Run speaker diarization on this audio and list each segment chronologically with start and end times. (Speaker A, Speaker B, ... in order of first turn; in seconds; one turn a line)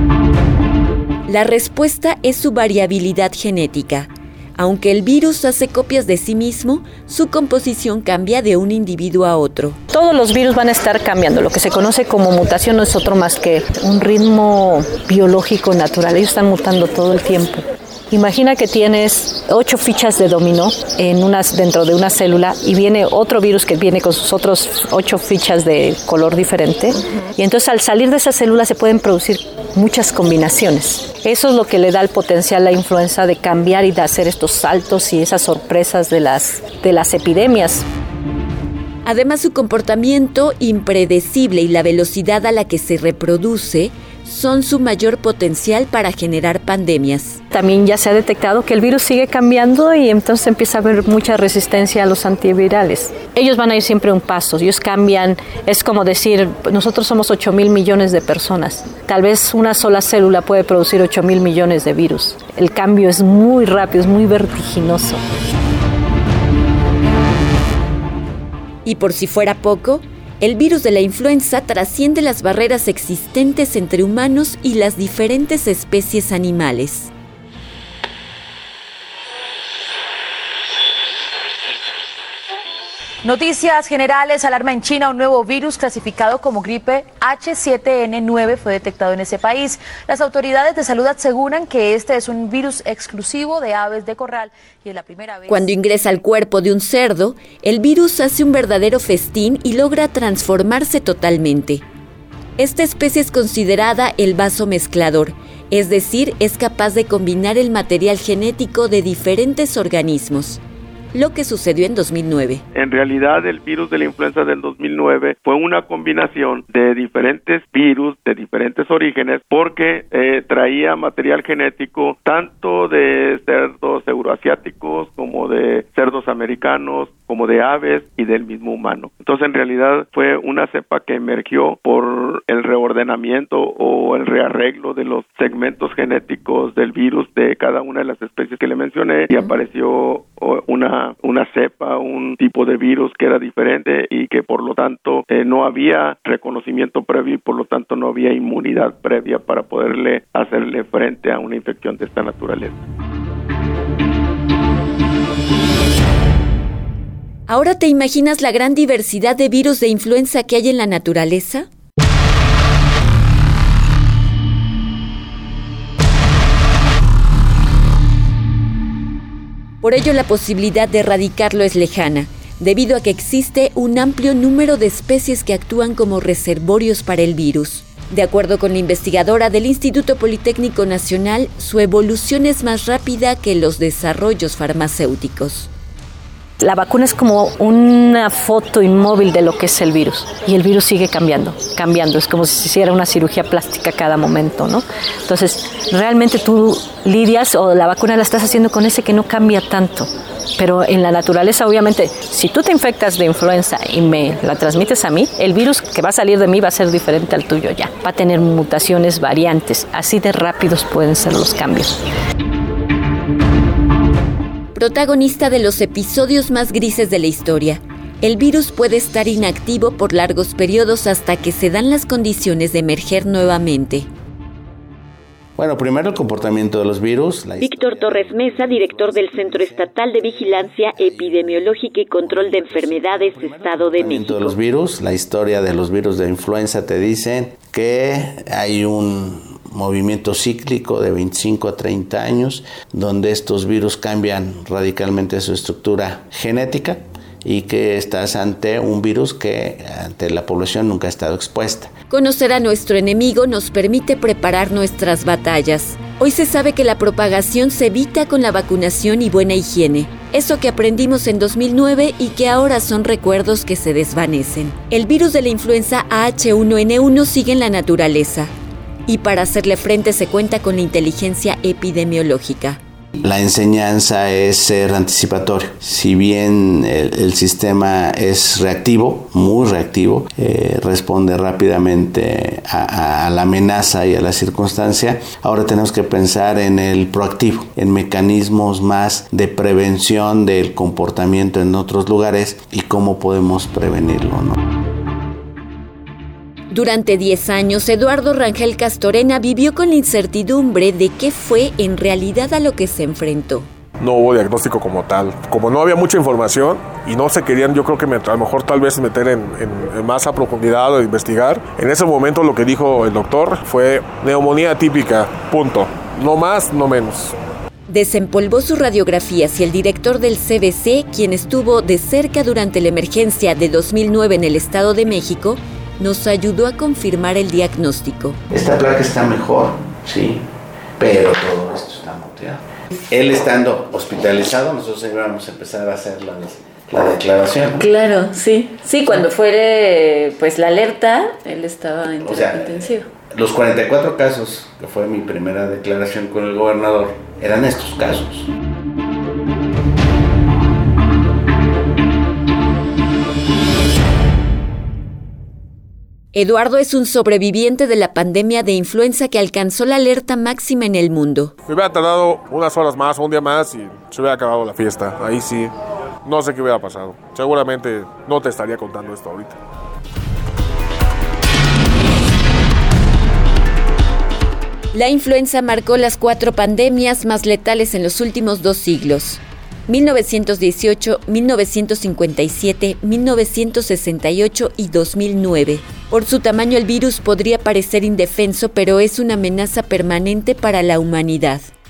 Speaker A: 1.3-9.8
Speaker B: 9.9-37.9
Speaker A: 39.0-47.4
Speaker B: 47.5-65.2
Speaker A: 68.8-77.1
Speaker C: 83.2-95.7
Speaker A: 95.5-101.8
Speaker A: 102.6-110.6
Speaker A: 111.1-112.6
Speaker D: 112.7-152.8
Speaker A: 157.5-161.7
Speaker A: 169.8-185.7
Speaker B: 186.6-212.0
Speaker A: 214.7-224.1
Speaker E: 225.6-251.9
Speaker A: 227.6-234.6
Speaker A: 252.1-268.5
Speaker A: 269.1-272.8
Speaker E: 273.2-294.6
Speaker A: 296.7-303.7
Speaker F: 304.0-317.3
Speaker A: 317.9-328.4
Speaker E: 328.5-330.4
Speaker E: 331.0-337.8
Speaker A: 337.8-343.1
Speaker E: 342.2-348.5
Speaker A: 356.3-361.5
Speaker F: 361.6-365.7
Speaker F: 366.2-369.6
Speaker A: 374.9-391.7